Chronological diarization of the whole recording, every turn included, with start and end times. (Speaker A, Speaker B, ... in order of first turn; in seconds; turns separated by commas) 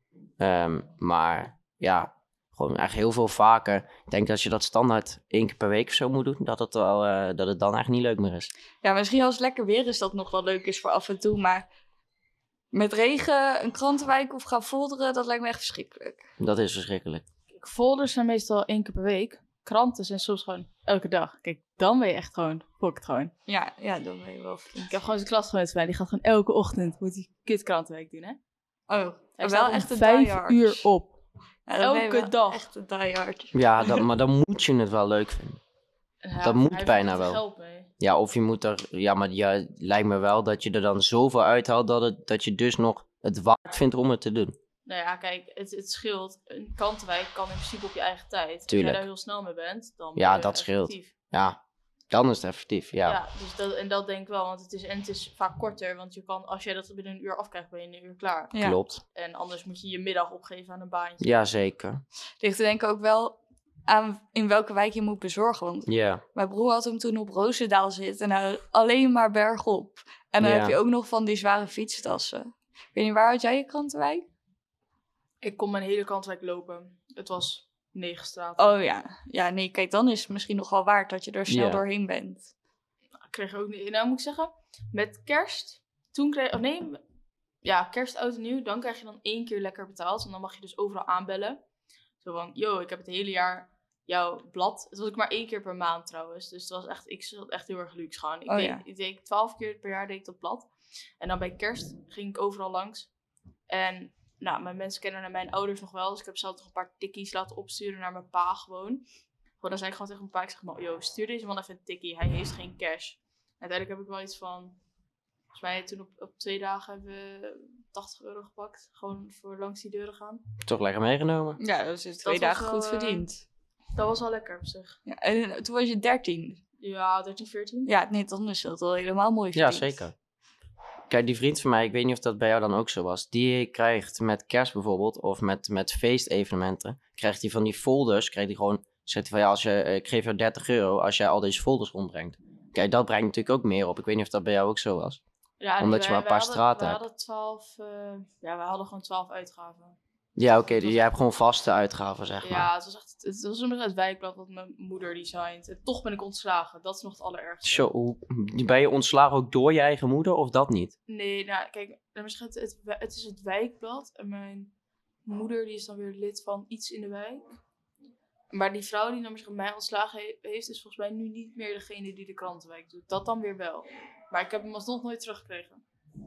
Speaker A: 0.4-8.5, Speaker B: 8.8-11.7, Speaker B: 12.7-16.2, Speaker A: 16.4-17.2, Speaker C: 17.5-23.3, Speaker B: 23.5-24.9, Speaker C: 24.9-28.4, Speaker B: 28.9-30.9, Speaker C: 29.4-31.1, Speaker B: 31.7-34.0, Speaker C: 31.8-32.6, Speaker A: 33.5-35.6, Speaker C: 36.2-37.9, Speaker A: 36.4-37.4, Speaker A: 38.0-44.5, Speaker C: 44.9-51.1, Speaker A: 48.7-49.0, Speaker A: 50.1-51.6, Speaker A: 52.1-53.2, Speaker C: 53.0-61.3, Speaker B: 58.5-58.8, Speaker A: 58.6-59.0, Speaker A: 61.2-62.0, Speaker B: 62.4-74.3, Speaker A: 65.9-66.2, Speaker A: 70.4-70.8, Speaker C: 75.4-78.7, Speaker B: 78.6-82.5, Speaker A: 81.5-81.8, Speaker C: 83.3-87.0, Speaker C: 87.6-91.6, Speaker C: 92.2-100.7, Speaker B: 98.5-98.8, Speaker C: 101.2-103.1, Speaker C: 103.7-109.0, Speaker C: 109.6-114.8, Speaker C: 115.5-120.4, Speaker A: 120.6-121.6, Speaker B: 121.6-123.4, Speaker C: 122.2-123.2, Speaker C: 123.9-125.0, Speaker B: 125.0-126.6, Speaker C: 126.8-127.9, Speaker B: 127.8-130.0, Speaker A: 129.5-130.1, Speaker A: 131.1-145.2, Speaker C: 145.6-150.0, Speaker A: 145.8-147.0, Speaker A: 150.4-152.7, Speaker C: 150.8-151.0, Speaker C: 152.4-157.8, Speaker A: 157.6-160.9, Speaker C: 161.1-164.7, Speaker C: 165.2-167.6, Speaker C: 168.5-175.8